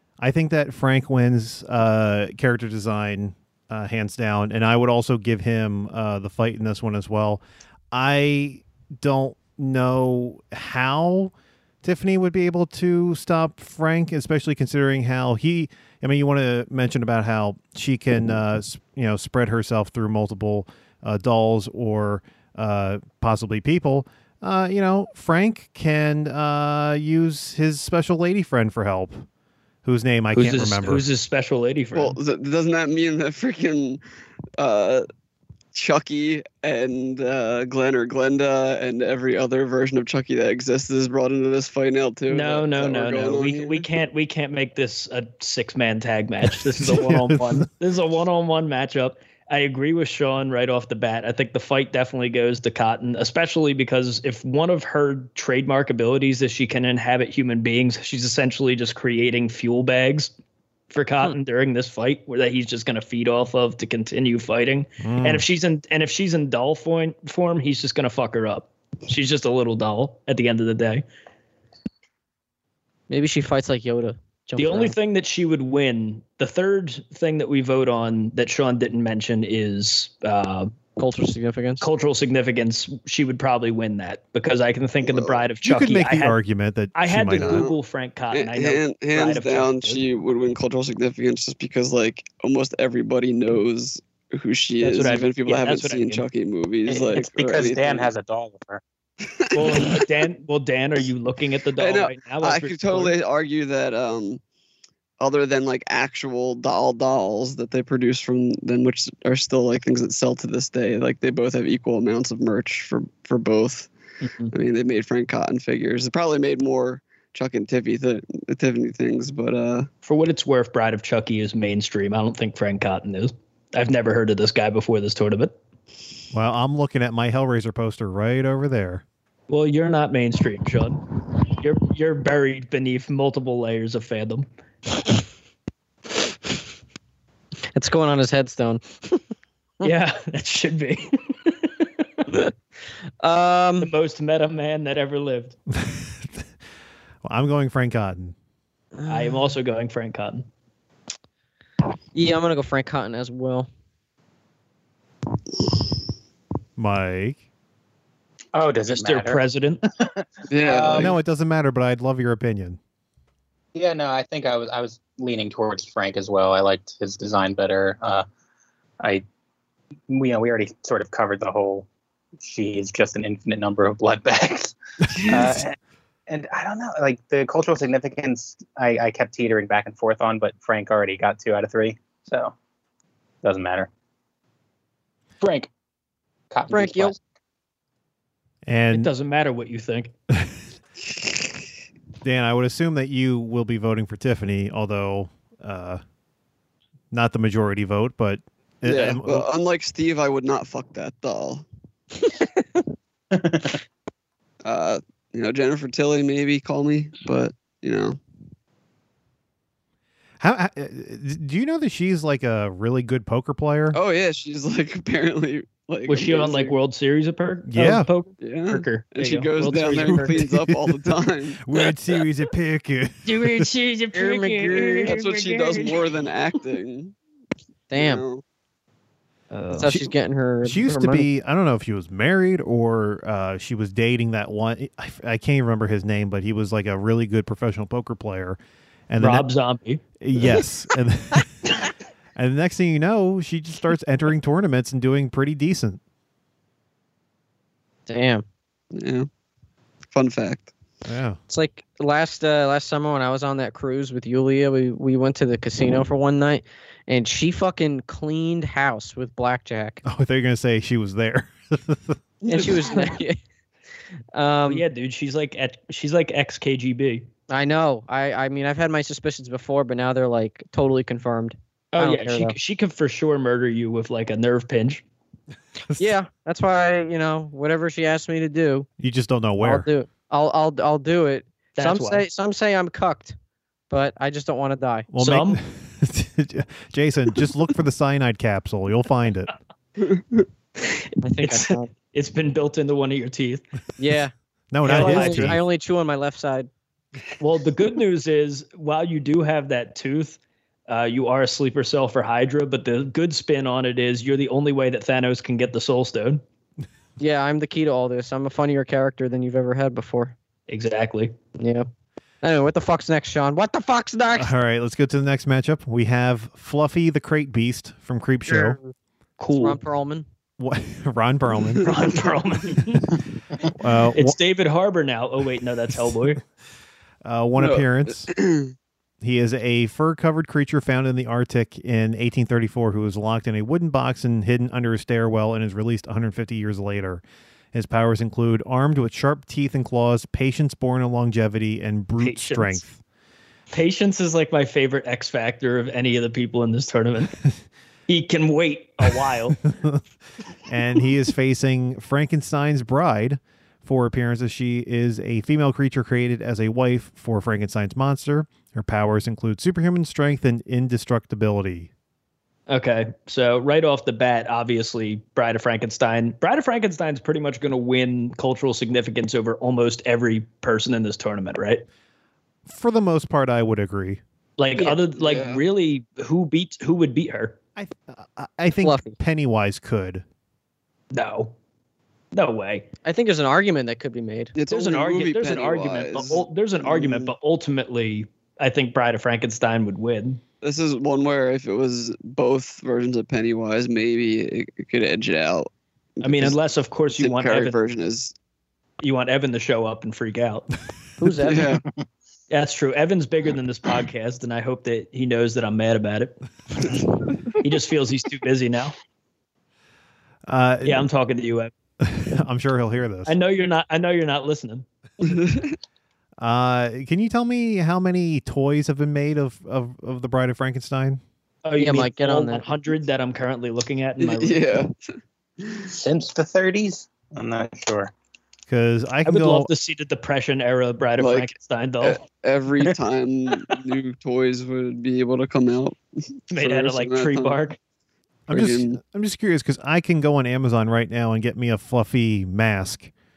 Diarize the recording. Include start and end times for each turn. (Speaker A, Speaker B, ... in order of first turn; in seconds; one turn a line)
Speaker A: 0.2-29.3
Speaker A: 29.8-31.1
Speaker B: 30.3-32.2
Speaker C: 31.9-34.0
Speaker C: 34.6-35.1
Speaker C: 35.7-43.9
Speaker B: 42.3-60.3
Speaker A: 46.6-47.7
Speaker B: 60.9-71.0
Speaker A: 65.0-65.5
Speaker D: 73.1-75.0
Speaker B: 74.6-80.8
Speaker D: 81.0-81.8
Speaker B: 81.8-86.4
Speaker C: 85.0-85.4
Speaker A: 85.6-87.7
Speaker B: 86.9-90.0
Speaker C: 87.3-87.8
Speaker C: 88.3-98.1
Speaker B: 94.8-96.3
Speaker E: 96.9-98.8
Speaker C: 99.3-100.0
Speaker B: 99.5-103.2
Speaker C: 101.8-104.4
Speaker C: 105.2-113.9
Speaker B: 114.2-114.5
Speaker C: 114.5-119.9
Speaker B: 120.0-125.6
Speaker A: 126.3-129.0
Speaker B: 129.5-131.1
Speaker B: 131.6-134.5
Speaker D: 137.7-139.2
Speaker B: 139.8-141.9
Speaker D: 143.2-143.9
Speaker B: 143.8-145.6
Speaker A: 145.8-146.4
Speaker A: 147.2-148.3
Speaker D: 149.0-149.5
Speaker B: 149.1-150.4
Speaker D: 152.2-153.7
Speaker A: 156.8-157.4
Speaker E: 158.5-159.4
Speaker B: 158.9-159.8
Speaker E: 160.0-161.1
Speaker C: 160.5-161.2
Speaker A: 160.9-162.8
Speaker E: 163.8-168.3
Speaker E: 170.1-171.9
Speaker E: 172.4-175.8
Speaker C: 175.1-175.6
Speaker E: 176.3-182.5
Speaker E: 183.4-183.9
Speaker E: 185.4-185.7
Speaker E: 186.5-187.2
Speaker D: 186.7-187.2
Speaker A: 188.7-189.1
Speaker B: 188.9-190.1
Speaker A: 192.2-196.0
Speaker A: 197.1-199.5
Speaker C: 198.8-201.7
Speaker E: 203.3-203.8
Speaker C: 204.6-208.2
Speaker A: 210.4-214.0
Speaker C: 213.9-216.8
Speaker B: 216.1-220.4
Speaker A: 217.7-218.1
Speaker C: 218.4-221.7
Speaker A: 220.6-223.7
Speaker B: 223.2-226.1
Speaker D: 224.1-225.2
Speaker C: 224.7-227.2
Speaker D: 227.9-228.2
Speaker C: 227.9-228.4
Speaker B: 229.5-229.9
Speaker D: 229.8-231.3
Speaker A: 230.6-239.5
Speaker B: 239.2-240.0
Speaker A: 240.2-241.5
Speaker A: 242.4-246.0
Speaker D: 248.1-248.4
Speaker C: 248.9-249.3
Speaker C: 250.1-250.7
Speaker A: 251.1-251.4
Speaker D: 251.5-260.0
Speaker A: 260.1-262.2
Speaker D: 262.5-263.4
Speaker B: 262.5-263.2
Speaker D: 264.3-264.9
Speaker B: 264.7-267.3
Speaker D: 267.5-272.6
Speaker B: 271.9-275.0
Speaker D: 276.0-278.9
Speaker A: 279.0-279.9
Speaker D: 279.6-283.4
Speaker B: 281.8-282.3
Speaker D: 283.9-285.1
Speaker A: 285.1-289.5
Speaker B: 285.2-285.6
Speaker C: 290.0-290.4
Speaker B: 290.8-293.6
Speaker D: 291.2-291.9
Speaker D: 294.0-294.3
Speaker A: 294.7-295.6
Speaker B: 294.8-295.6
Speaker D: 294.9-296.7
Speaker B: 297.4-306.4
Speaker D: 307.2-310.4
Speaker B: 310.7-311.3
Speaker D: 311.6-311.9
Speaker D: 312.4-314.5
Speaker A: 314.4-318.8
Speaker D: 318.5-318.9
Speaker B: 319.4-319.8
Speaker D: 319.5-320.3
Speaker A: 320.6-321.9
Speaker B: 321.8-323.1
Speaker A: 323.7-324.4
Speaker B: 324.1-326.4
Speaker A: 327.2-328.3
Speaker C: 327.6-328.7
Speaker A: 329.2-337.2
Speaker A: 337.7-343.0
Speaker B: 342.2-342.8
Speaker B: 343.7-347.4
Speaker B: 348.1-349.6
Speaker A: 349.8-350.0
Speaker A: 350.7-361.9
Speaker B: 362.7-371.9
Speaker A: 372.7-374.2
Speaker B: 374.6-377.6
Speaker C: 375.2-375.6
Speaker A: 377.8-380.2
Speaker D: 378.8-379.2
Speaker B: 381.1-381.5
Speaker B: 382.3-382.9
Speaker D: 383.1-384.5
Speaker C: 384.6-387.3
Speaker B: 384.7-390.4
Speaker C: 390.6-396.6
Speaker B: 396.2-397.8
Speaker C: 397.1-398.3
Speaker B: 399.0-400.7
Speaker D: 401.2-401.8
Speaker C: 401.4-401.8
Speaker B: 402.5-406.4
Speaker B: 407.6-408.9
Speaker A: 410.5-411.1
Speaker B: 410.9-411.7
Speaker A: 412.0-413.4
Speaker B: 413.3-414.9
Speaker C: 415.2-415.8
Speaker A: 416.4-421.2
Speaker B: 421.6-424.6
Speaker D: 421.8-422.7
Speaker C: 424.2-424.9
Speaker C: 425.6-425.9
Speaker E: 425.9-428.1
Speaker A: 428.7-429.7
Speaker B: 429.3-432.2
Speaker C: 431.2-436.0
Speaker B: 436.5-437.8
Speaker C: 436.5-437.6
Speaker A: 438.5-443.1
Speaker C: 438.5-439.0